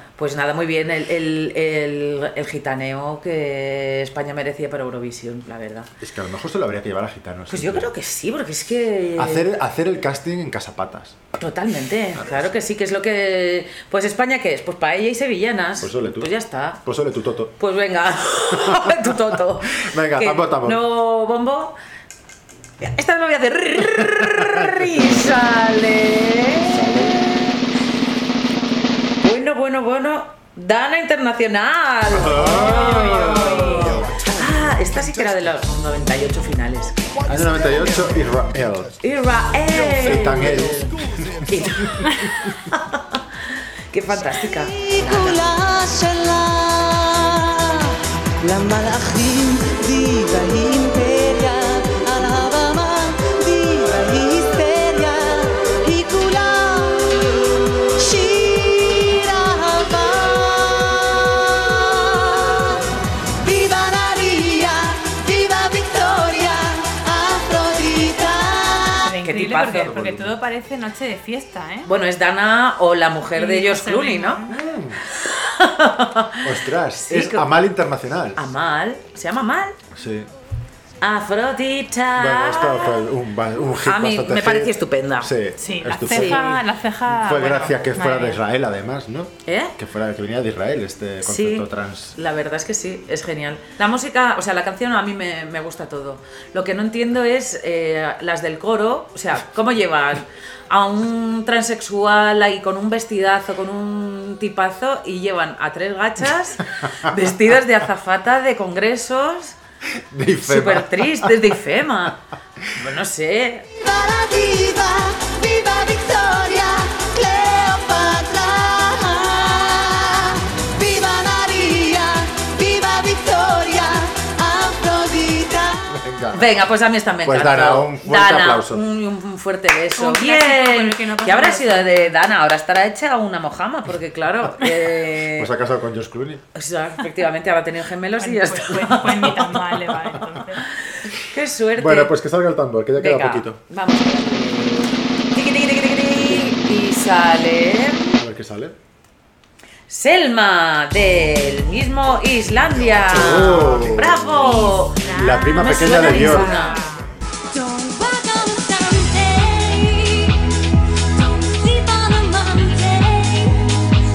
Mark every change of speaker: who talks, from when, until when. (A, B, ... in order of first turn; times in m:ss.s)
0:00.2-0:05.9 A
0:06.0-0:07.9 B
0:07.5-0:09.5 A
0:09.2-0:11.2 B
0:11.4-0:16.8 A
0:12.2-0:12.5 B
0:15.8-0:16.3 B
0:16.8-0:17.6 B
0:17.6-0:21.8 A
0:18.5-0:20.8 B
0:22.8-0:27.6 A
0:24.0-0:25.5 B
0:26.6-0:27.3 B
0:29.2-0:37.0 A
0:32.1-0:34.2 B
0:33.0-0:33.8 C
0:37.3-0:38.9 B
0:39.0-0:40.9 A
0:40.0-0:40.9 B
0:41.5-0:42.1 A
0:41.8-0:42.2 B
0:42.6-0:43.2 A
0:43.9-0:45.4 A
0:44.7-0:47.9 D
0:48.4-0:57.2 D
0:58.0-1:02.7 D
1:03.4-1:09.0 D
1:09.0-1:11.9 C
1:09.2-1:10.0 A
1:09.7-1:10.4 B
1:11.8-1:14.5 A
1:13.4-1:14.6 C
1:14.5-1:15.0 B
1:15.1-1:17.5 A
1:16.4-1:18.4 B
1:18.4-1:19.8 A
1:19.9-1:20.3 B
1:21.0-1:23.0 A
1:22.2-1:32.2 B
1:23.8-1:25.3 A
1:25.6-1:28.4 C
1:26.0-1:26.6 A
1:29.5-1:29.8 A
1:31.2-1:49.6 A
1:50.1-1:51.5 B
1:50.4-1:52.2 A
1:52.8-1:53.7 A
1:53.9-2:00.3 D
2:00.8-2:05.8 D
2:05.9-2:06.6 B
2:06.3-2:15.5 A
2:07.2-2:08.8 B
2:10.0-2:12.1 C
2:15.1-2:16.4 B
2:16.5-2:19.8 A
2:18.2-2:20.6 C
2:21.0-2:22.1 A
2:21.8-2:23.6 B
2:23.0-2:28.2 A
2:26.1-2:26.9 B
2:28.2-2:28.8 B
2:29.9-2:36.8 A
2:32.9-2:36.6 B
2:34.6-2:37.1 C
2:37.5-2:40.4 D
2:41.2-2:43.7 D